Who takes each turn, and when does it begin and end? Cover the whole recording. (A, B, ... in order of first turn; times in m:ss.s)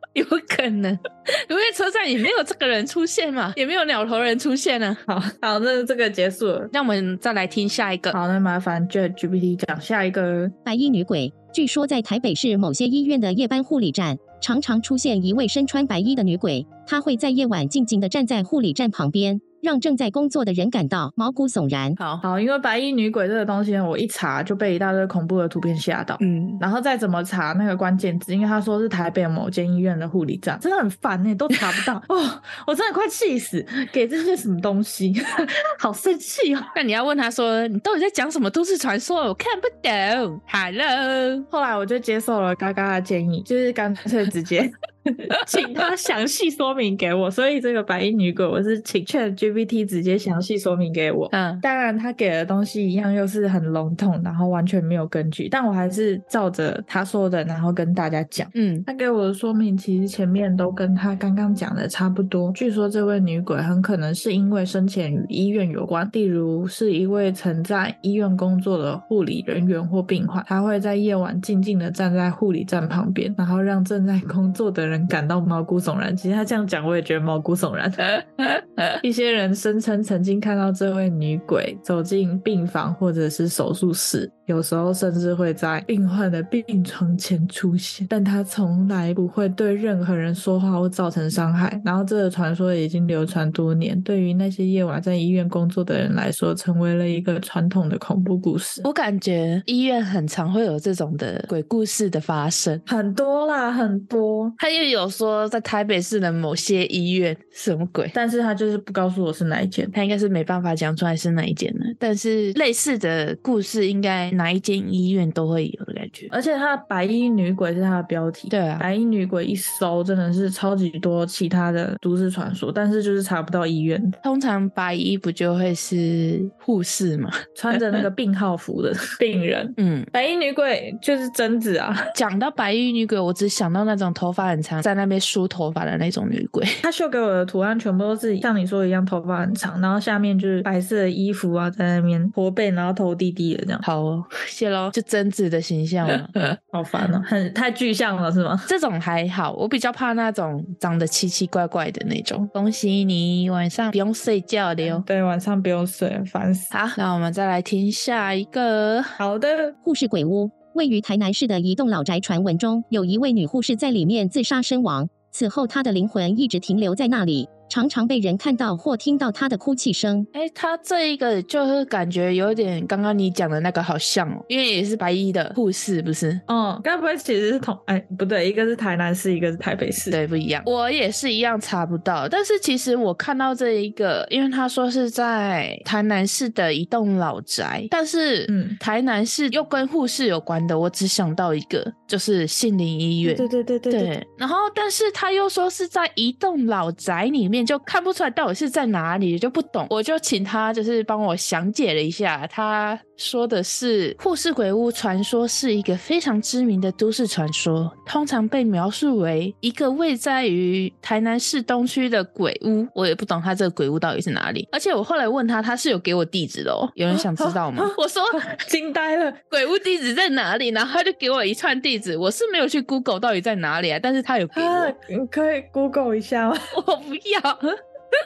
0:00.1-0:05.0 A
0:05.1-0:06.7 B
0:06.7-0:08.2 A
0:08.1-0:10.6 B
0:10.6-0:22.0 C
0:22.0-0:22.2 A
0:22.2-0:36.7 B
0:26.2-0:26.6 A
0:36.8-0:41.5 A
0:41.5-1:18.2 B
0:45.5-0:45.7 A
0:51.3-0:51.6 A
0:58.5-0:58.9 A
1:18.2-1:19.0 A
1:19.0-1:38.9 B
1:38.8-1:42.8 A
1:42.9-1:44.6 B
1:44.6-1:48.1 A
1:48.1-1:49.9 B
1:49.9-1:56.3 A
1:56.3-2:04.2 B
1:58.5-1:58.9 A
2:04.2-2:08.1 A
2:07.6-2:12.1 B
2:09.8-2:10.1 A
2:12.1-2:16.8 A
2:16.8-2:23.8 B
2:23.8-2:26.4 A
2:26.7-2:28.7 B
2:28.7-2:35.0 A
2:34.8-2:36.7 B
2:36.7-2:39.2 A
2:39.2-2:39.8 B
2:39.8-2:50.3 C
2:50.3-2:56.4 A
2:56.5-3:00.2 B
3:00.1-3:38.4 A
3:08.5-3:08.8 B
3:13.2-3:14.1 B
3:37.1-3:39.4 B
3:39.5-3:44.9 A
3:44.5-3:46.7 B
3:46.7-3:47.8 A